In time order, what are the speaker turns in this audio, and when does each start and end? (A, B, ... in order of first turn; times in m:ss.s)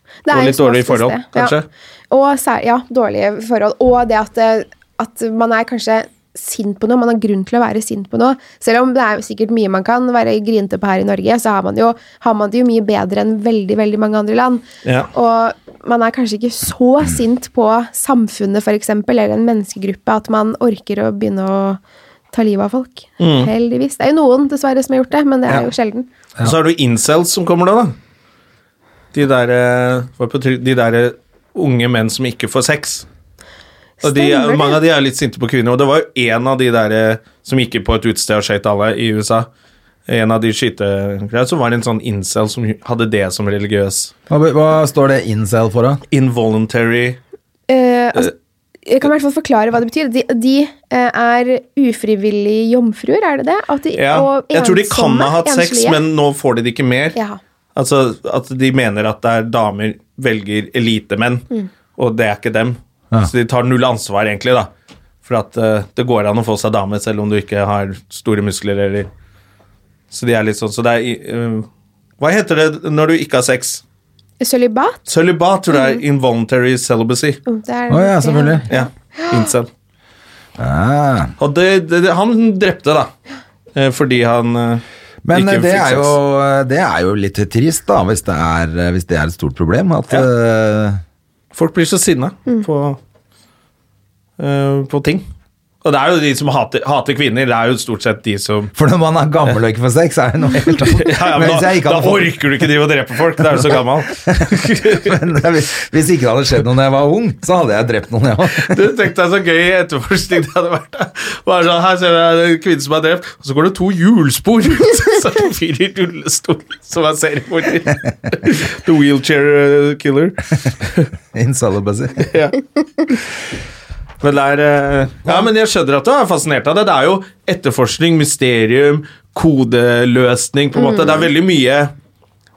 0:00.3-0:01.6 A
0:00.3-0:01.6 B
0:02.1-0:21.8 A
0:14.8-0:15.1 B
0:22.3-0:26.1 A
0:23.2-0:23.5 B
0:26.4-0:28.0 B
0:29.1-0:33.0 B
0:34.0-0:34.8 A
0:34.0-0:39.5 B
0:40.1-0:44.1 B
0:44.3-0:46.0 C
0:46.1-0:47.2 B
0:47.7-0:48.3 A
0:48.9-0:56.0 A
0:54.0-0:57.2 B
0:57.1-0:57.4 A
0:57.7-1:04.7 B
1:05.2-1:09.1 B
1:10.1-1:11.7 B
1:12.2-1:13.8 B
1:14.4-1:15.0 A
1:15.1-1:17.4 B
1:15.7-1:16.0 A
1:17.4-1:19.5 A
1:17.9-1:18.7 C
1:18.7-1:19.7 B
1:20.6-1:21.3 C
1:21.4-1:23.1 B
1:23.7-1:26.2 B
1:25.2-1:31.0 C
1:31.5-1:33.0 B
1:34.4-1:35.3 B
1:35.8-1:38.7 B
1:38.7-1:42.4 C
1:40.9-1:45.1 B
1:44.2-1:48.7 C
1:48.6-2:01.1 B
2:01.3-2:02.3 C
2:02.2-2:02.6 B
2:04.2-2:11.9 B
2:10.7-2:11.3 A